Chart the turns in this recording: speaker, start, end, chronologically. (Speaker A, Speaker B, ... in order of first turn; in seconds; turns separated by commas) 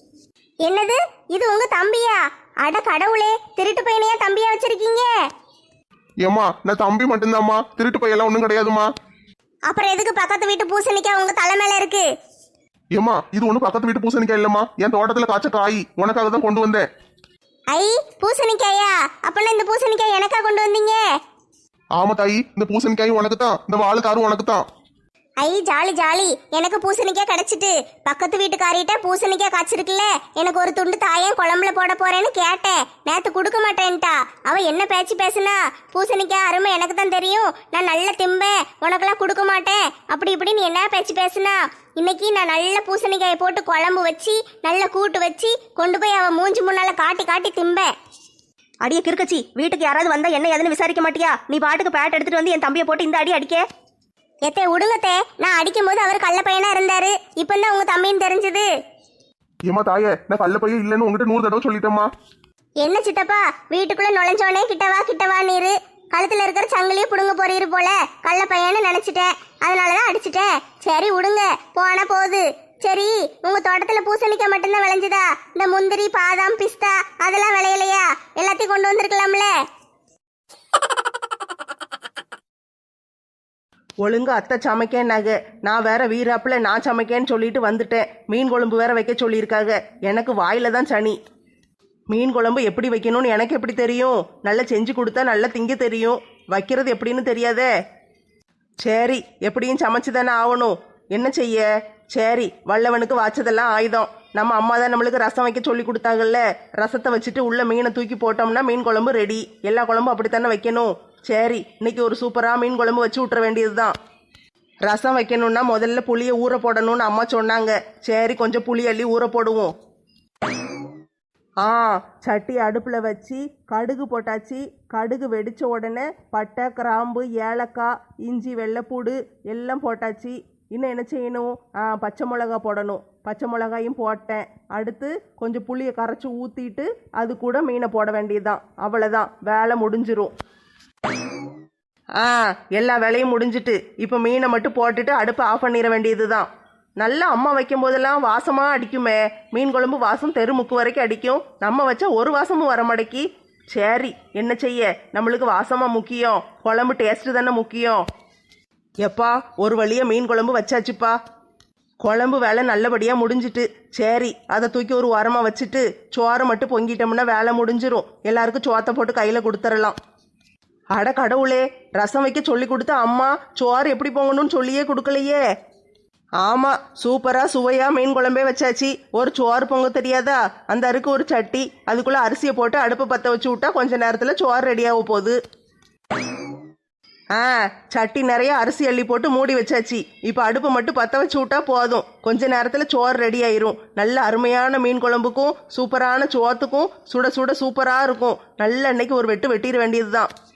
Speaker A: 0.7-5.1, Speaker B: 6.2-8.9, Speaker A: 9.7-12.1, Speaker B: 12.9-16.9, Speaker A: 17.7-21.0, Speaker B: 22.0-24.6, Speaker A: 25.4-47.9, Speaker C: 48.8-53.7, Speaker A: 54.4-58.7, Speaker B: 59.7-62.1, Speaker A: 62.8-79.5, Speaker D: 84.0-91.2, Speaker D: 92.1-97.7, Speaker D: 98.8-113.9, Speaker D: 114.9-119.7, Speaker D: 121.6-140.3, Speaker D: 142.2-146.5, Speaker D: 147.0-158.0, Speaker D: 159.0-161.2, Speaker D: 162.0-169.9, Speaker D: 171.0-175.4, Speaker D: 176.4-185.4, Speaker D: 187.4-200.3